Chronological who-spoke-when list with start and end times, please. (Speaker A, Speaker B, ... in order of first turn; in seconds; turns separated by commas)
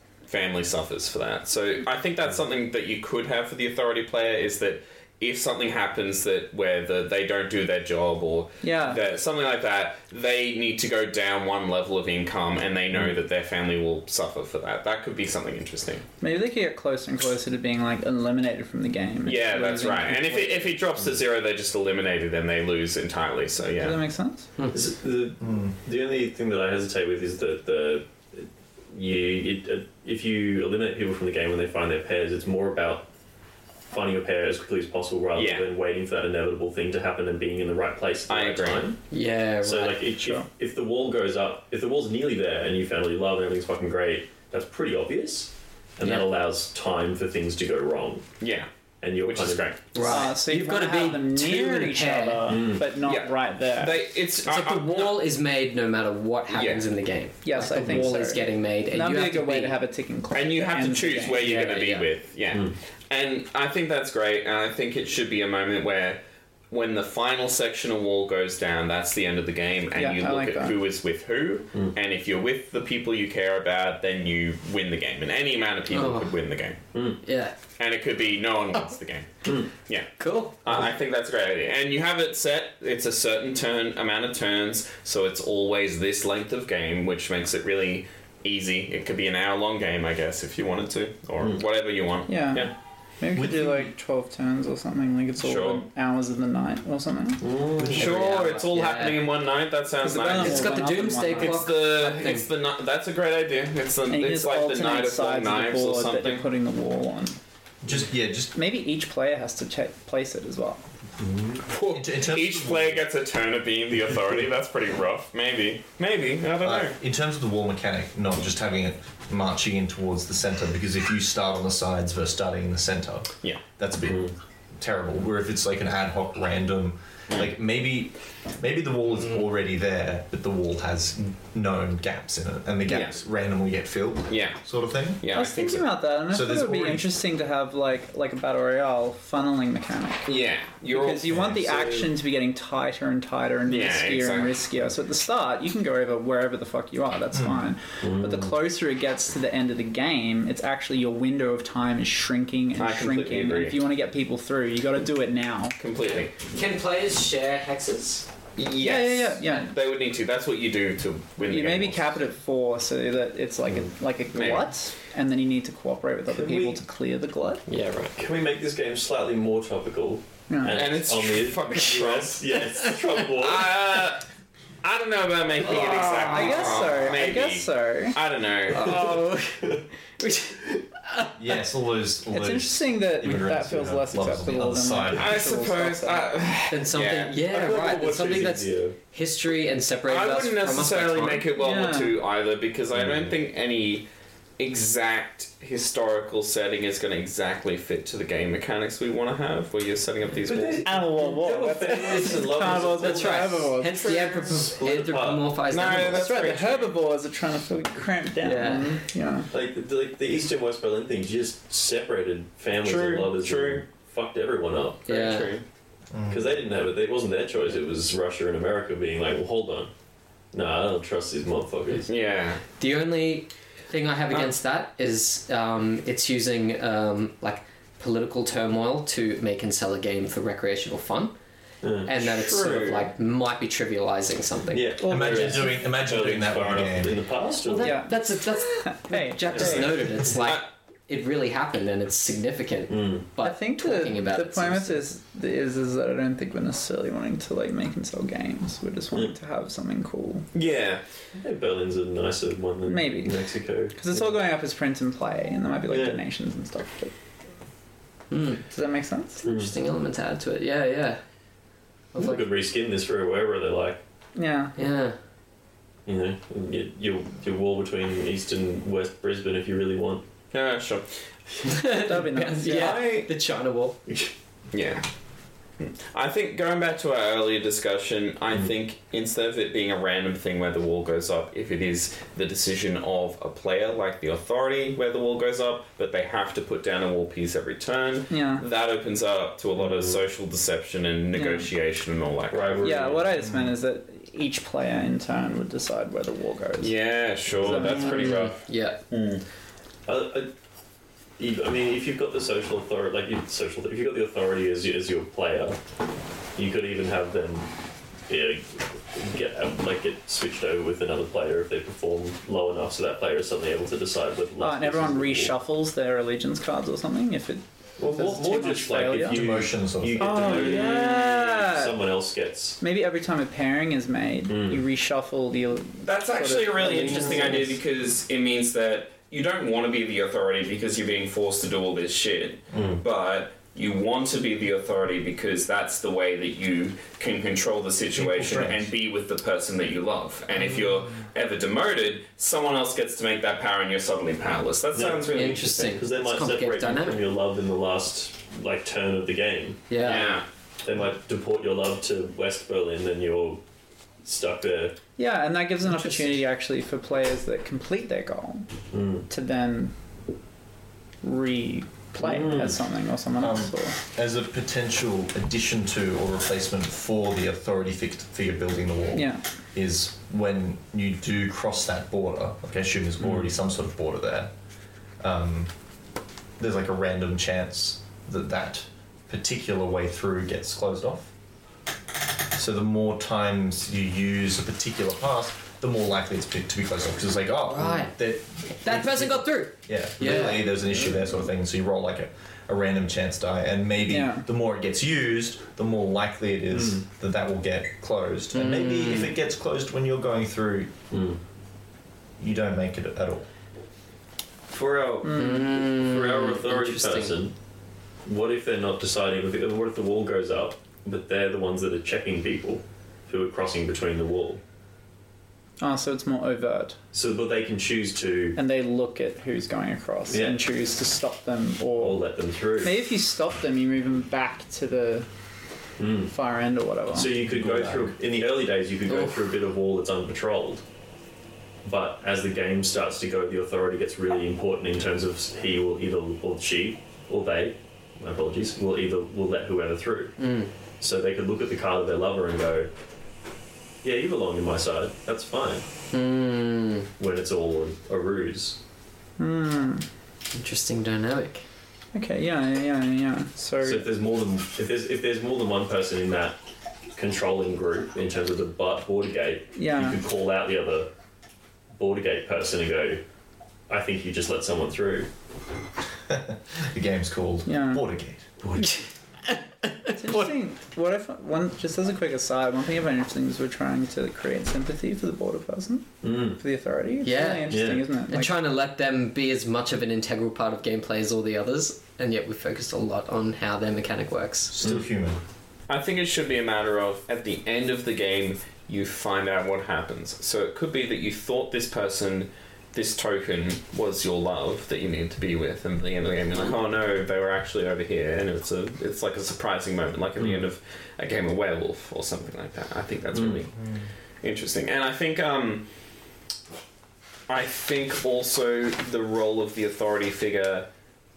Speaker A: 0.3-16.1, Speaker B: 8.6-9.0, Speaker B: 16.2-20.7, Speaker A: 19.2-24.0, Speaker B: 23.8-24.5, Speaker C: 24.7-33.1, Speaker D: 25.4-25.8, Speaker C: 33.9-39.0, Speaker A: 35.4-35.7, Speaker A: 38.3-38.9, Speaker E: 39.1-40.0, Speaker C: 39.6-48.2, Speaker B: 40.2-40.5, Speaker E: 46.0-46.3, Speaker A: 48.4-48.7, Speaker C: 49.0-49.8, Speaker A: 49.2-50.2, Speaker E: 49.9-52.6, Speaker B: 50.0-54.0, Speaker C: 52.5-52.9, Speaker A: 53.0-55.2, Speaker E: 54.4-59.8, Speaker A: 56.5-56.9, Speaker B: 57.4-61.5, Speaker A: 60.3-76.8, Speaker E: 61.4-62.1, Speaker B: 70.0-70.8, Speaker E: 75.9-76.3, Speaker E: 77.2-77.5, Speaker A: 77.8-80.1, Speaker C: 79.5-79.7, Speaker E: 80.2-80.5, Speaker A: 80.6-92.5, Speaker B: 92.3-97.5, Speaker D: 93.3-93.9, Speaker A: 95.4-95.8, Speaker C: 97.4-98.2, Speaker A: 97.9-106.5, Speaker E: 97.9-99.4, Speaker B: 100.0-101.7, Speaker E: 100.3-102.5, Speaker B: 104.1-107.4, Speaker D: 107.8-108.5, Speaker B: 108.5-110.8, Speaker C: 111.3-111.6, Speaker A: 111.7-117.0, Speaker D: 111.9-113.1, Speaker D: 116.6-135.2, Speaker C: 124.0-124.3, Speaker A: 132.8-133.2, Speaker A: 134.3-134.6, Speaker A: 135.2-136.0, Speaker B: 135.3-140.3, Speaker D: 136.3-137.1, Speaker A: 140.3-141.6, Speaker B: 140.9-155.8, Speaker D: 141.3-141.7, Speaker A: 143.7-144.6, Speaker D: 147.3-147.7, Speaker C: 148.0-148.5, Speaker A: 152.8-153.8, Speaker A: 155.8-156.3, Speaker E: 156.0-158.3, Speaker A: 158.6-162.2, Speaker B: 158.8-159.7, Speaker B: 161.5-167.6, Speaker A: 164.3-164.7, Speaker C: 166.3-166.8, Speaker E: 167.7-168.2, Speaker C: 168.2-173.8, Speaker B: 170.5-170.8, Speaker A: 170.7-172.5, Speaker A: 173.2-174.3, Speaker A: 174.8-179.2, Speaker E: 175.6-177.1, Speaker B: 176.3-178.2, Speaker E: 178.7-181.3, Speaker C: 178.8-179.8, Speaker D: 181.4-185.4, Speaker B: 182.3-186.3, Speaker A: 185.1-187.4, Speaker E: 186.7-191.5, Speaker C: 187.4-189.0, Speaker A: 190.1-194.1, Speaker B: 191.6-192.2, Speaker C: 192.9-193.3, Speaker A: 194.6-201.0, Speaker C: 200.4-203.7, Speaker B: 200.8-204.2, Speaker E: 201.9-206.3, Speaker A: 203.9-204.7, Speaker C: 204.4-205.6, Speaker A: 205.7-207.0, Speaker B: 206.1-209.5, Speaker E: 208.4-209.0, Speaker C: 209.5-215.1, Speaker A: 212.8-213.8, Speaker E: 215.1-215.6, Speaker A: 215.1-215.6, Speaker D: 216.1-216.5, Speaker C: 216.3-219.9, Speaker C: 220.5-222.1, Speaker A: 222.1-222.6, Speaker E: 222.8-231.3, Speaker C: 231.8-232.1, Speaker E: 232.0-235.6, Speaker A: 232.2-233.1, Speaker C: 234.7-238.1, Speaker D: 235.1-237.2, Speaker E: 237.6-245.1, Speaker B: 237.8-239.9, Speaker C: 239.5-240.1, Speaker A: 240.4-240.6, Speaker C: 242.9-243.3, Speaker B: 243.4-250.5, Speaker A: 250.5-251.0, Speaker C: 251.4-254.3, Speaker B: 252.8-257.1, Speaker C: 255.9-256.2, Speaker E: 258.3-258.6, Speaker B: 258.7-259.4, Speaker E: 259.4-261.2, Speaker C: 259.4-259.7, Speaker E: 262.1-262.4, Speaker C: 262.2-264.0, Speaker B: 264.4-264.7, Speaker E: 264.8-265.2, Speaker C: 266.1-270.2, Speaker A: 270.5-271.1, Speaker E: 271.6-274.0, Speaker B: 272.0-273.0, Speaker A: 272.4-273.3, Speaker C: 274.1-274.3, Speaker A: 274.7-275.1, Speaker A: 275.8-292.9, Speaker B: 288.3-288.6, Speaker C: 289.8-290.2, Speaker B: 291.3-291.7, Speaker C: 292.5-293.3, Speaker B: 292.8-297.0, Speaker A: 296.8-299.4, Speaker B: 297.5-298.4, Speaker E: 297.8-299.0, Speaker C: 300.1-300.5, Speaker C: 301.4-305.8, Speaker C: 306.6-307.7, Speaker C: 308.3-315.5, Speaker B: 314.6-319.4, Speaker C: 318.0-322.8, Speaker D: 319.2-320.7, Speaker B: 320.2-322.0, Speaker B: 322.8-327.8, Speaker C: 324.5-324.8, Speaker A: 326.0-345.9, Speaker C: 327.0-327.6, Speaker C: 332.7-333.0, Speaker D: 338.2-338.9, Speaker C: 344.9-350.2, Speaker E: 345.3-347.3, Speaker E: 349.9-350.4, Speaker A: 350.0-350.5, Speaker C: 350.8-353.6, Speaker C: 354.2-355.0, Speaker B: 355.2-358.7, Speaker E: 355.9-356.2, Speaker C: 358.9-359.3, Speaker B: 359.3-359.9, Speaker B: 361.2-364.0, Speaker C: 362.2-362.8, Speaker D: 363.4-374.5, Speaker B: 369.1-369.4, Speaker C: 373.2-373.5, Speaker D: 375.2-375.7, Speaker D: 376.6-381.3, Speaker D: 382.5-400.9, Speaker E: 387.7-388.1, Speaker E: 388.8-390.7, Speaker C: 390.2-390.5, Speaker B: 394.1-394.5, Speaker C: 396.7-397.0, Speaker E: 398.5-399.4, Speaker C: 401.1-401.4, Speaker D: 402.4-403.5, Speaker C: 404.7-407.5, Speaker B: 405.2-405.7, Speaker E: 405.3-407.4, Speaker C: 408.3-414.6, Speaker B: 415.8-417.0, Speaker C: 417.1-418.6, Speaker B: 418.6-422.2, Speaker C: 420.3-420.6, Speaker C: 422.0-423.0, Speaker B: 422.8-425.3, Speaker C: 426.0-426.3, Speaker B: 426.3-427.4, Speaker C: 427.1-430.8, Speaker E: 429.1-429.4, Speaker C: 431.9-440.4, Speaker E: 440.4-440.7, Speaker C: 441.0-442.9, Speaker C: 444.0-445.9, Speaker E: 446.1-447.1, Speaker C: 447.2-448.8, Speaker B: 449.4-450.1, Speaker E: 450.5-451.6, Speaker B: 452.1-454.1, Speaker C: 453.8-456.6, Speaker C: 457.1-461.1, Speaker B: 459.7-460.2, Speaker C: 461.9-463.2, Speaker C: 463.9-465.3, Speaker D: 466.3-468.5, Speaker B: 467.7-468.0, Speaker C: 468.6-469.0, Speaker E: 469.5-470.1, Speaker B: 470.1-478.5, Speaker C: 476.2-476.6, Speaker E: 477.2-484.7, Speaker C: 477.7-478.0, Speaker D: 484.7-485.4, Speaker A: 485.9-503.7, Speaker C: 500.4-500.6, Speaker C: 503.3-503.6, Speaker D: 503.8-504.1, Speaker A: 504.4-505.9, Speaker A: 507.5-510.9